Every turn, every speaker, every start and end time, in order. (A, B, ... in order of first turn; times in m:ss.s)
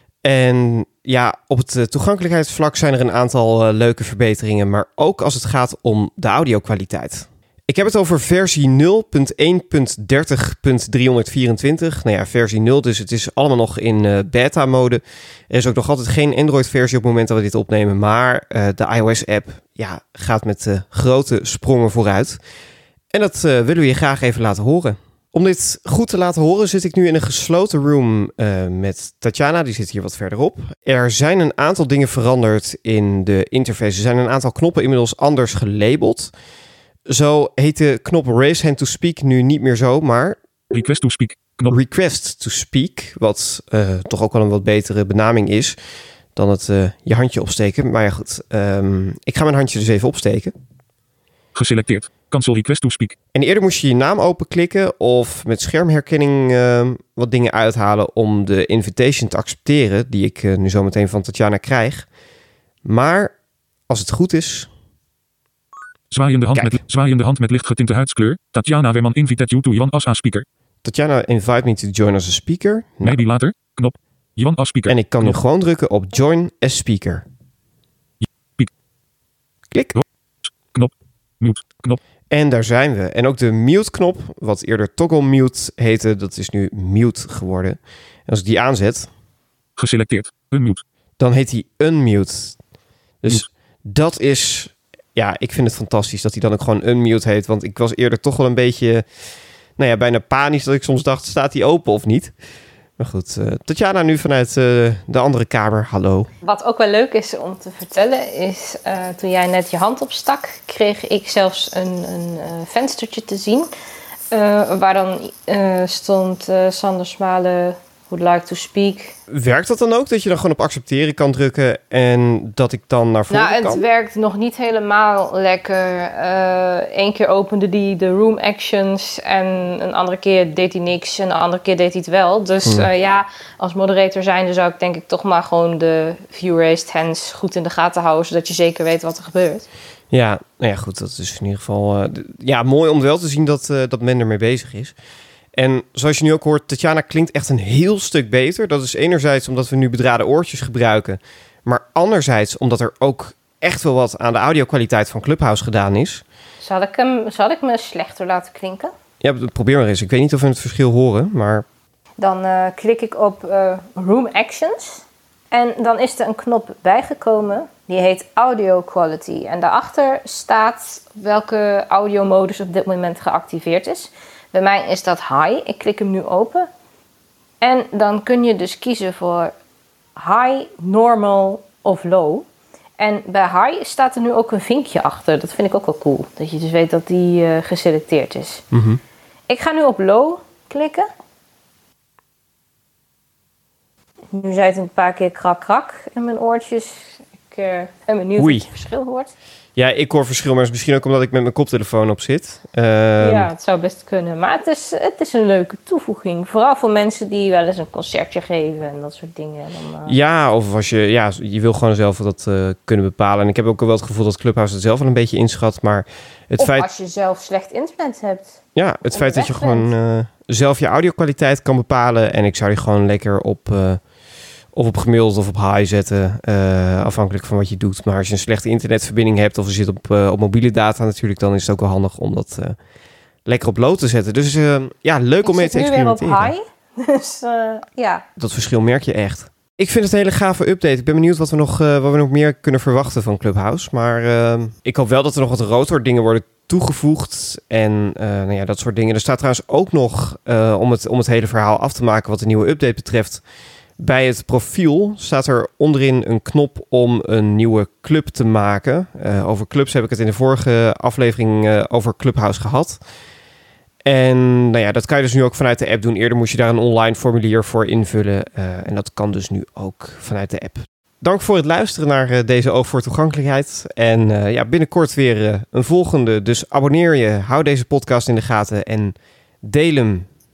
0:00.2-0:15.0 A
0:15.5-0:22.4 A
0:23.1-0:36.3 A
0:37.1-0:40.4 A
0:40.7-0:41.8 B
0:41.7-0:45.8 A
0:46.4-0:50.5 A
0:51.5-0:53.2 B
0:53.3-1:02.1 A
1:02.8-1:03.3 A
1:03.9-1:04.7 A
1:06.1-1:10.5 B
1:10.8-1:13.2 A
1:13.0-1:15.4 B
1:14.9-1:17.2 A
1:18.2-1:18.7 B
1:19.7-1:20.0 A
1:20.6-1:22.0 B
1:22.3-1:29.1 A
1:29.8-1:30.8 B
1:31.2-1:32.6 A
1:33.2-1:39.0 A
1:39.8-1:42.3 A
1:43.0-1:46.3 A
1:46.4-1:53.7 C
1:54.3-1:59.2 C
1:59.3-2:03.8 A
2:03.3-2:19.7 C
2:20.1-2:25.0 A
2:25.6-2:36.2 A
2:36.6-2:38.9 C
2:39.2-2:41.7 A
2:42.2-2:56.7 C
2:57.6-2:59.5 C
3:00.2-3:02.5 C
3:03.0-3:08.6 C
3:08.7-3:09.0 A
3:09.5-3:11.1 C
3:14.3-3:19.3 C
3:18.4-3:18.7 A
3:19.8-3:23.5 A
3:23.2-3:30.2 C
3:30.1-3:36.9 A
3:36.6-3:39.9 C
3:38.8-3:44.0 A
3:44.8-3:52.8 A
3:53.5-3:56.5 A
3:55.4-3:58.2 C
3:58.4-4:13.4 A
4:14.0-4:23.0 A
4:24.0-4:40.3 A